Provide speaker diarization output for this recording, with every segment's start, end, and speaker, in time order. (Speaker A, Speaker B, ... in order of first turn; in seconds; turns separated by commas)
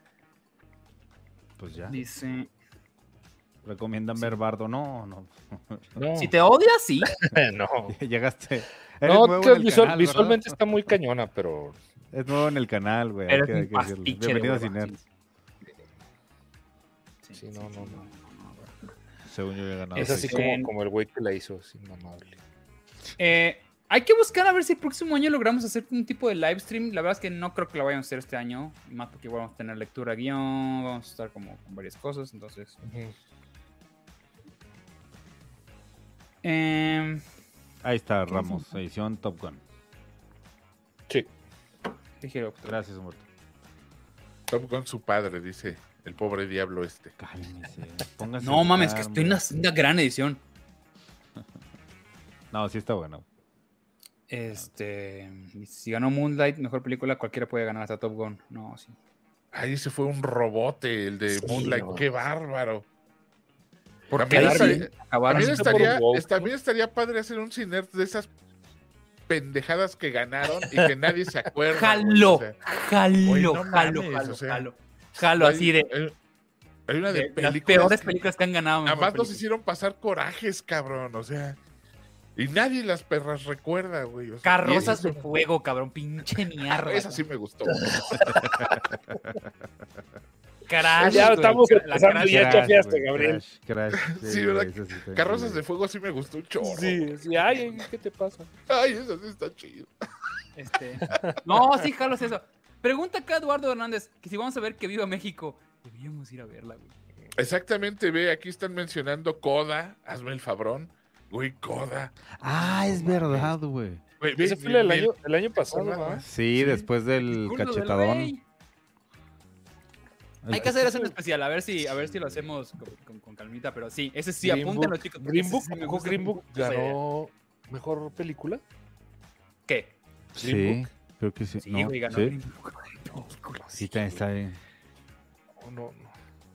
Speaker A: 1.6-2.0, Speaker B: 1.9-2.5, Speaker A: 3.6-6.0, Speaker C: 6.0-6.3, Speaker B: 6.2-7.1, Speaker C: 7.2-8.0, Speaker A: 7.9-10.5, Speaker C: 9.0-11.8, Speaker A: 12.1-14.9, Speaker B: 13.3-15.0, Speaker B: 17.2-18.7, Speaker C: 17.4-18.0, Speaker A: 19.2-20.4, Speaker B: 19.9-20.7, Speaker C: 19.9-22.4, Speaker B: 23.2-32.8, Speaker C: 32.9-33.1, Speaker B: 36.4-37.2, Speaker A: 37.8-39.6, Speaker B: 38.3-38.7, Speaker B: 42.2-42.8, Speaker A: 42.6-43.2, Speaker D: 44.5-47.1, Speaker A: 47.2-49.4, Speaker B: 48.4-50.4, Speaker A: 52.5-53.2, Speaker B: 54.3-59.0, Speaker D: 59.5-62.9, Speaker C: 61.3-62.0, Speaker B: 64.1-65.9, Speaker D: 64.1-68.3, Speaker C: 64.2-66.5, Speaker D: 69.3-72.6, Speaker C: 70.6-70.9, Speaker B: 71.7-75.9, Speaker D: 73.2-74.7, Speaker D: 75.4-76.1, Speaker D: 76.9-78.2, Speaker B: 77.1-79.4, Speaker D: 78.8-81.6, Speaker D: 82.3-85.3, Speaker B: 84.4-87.2, Speaker C: 84.7-85.0, Speaker D: 86.8-88.3, Speaker C: 87.7-89.2, Speaker A: 88.2-89.5, Speaker B: 90.7-92.8, Speaker D: 91.0-91.5, Speaker C: 91.0-93.4, Speaker A: 92.2-95.6, Speaker D: 93.9-97.6, Speaker C: 96.6-98.5, Speaker D: 98.7-99.9, Speaker B: 100.5-106.9, Speaker C: 101.0-101.4, Speaker D: 107.4-112.2, Speaker A: 112.3-114.0, Speaker C: 112.9-113.5, Speaker D: 114.2-116.2, Speaker C: 114.4-116.8, Speaker A: 116.2-118.3, Speaker B: 117.2-118.4, Speaker A: 120.4-120.8, Speaker B: 120.5-127.0, Speaker C: 120.6-121.1, Speaker C: 124.4-128.6, Speaker B: 129.7-129.9, Speaker A: 130.3-132.3, Speaker C: 130.4-130.9, Speaker B: 131.6-133.6, Speaker C: 133.6-134.2, Speaker A: 133.7-134.6, Speaker C: 135.6-136.1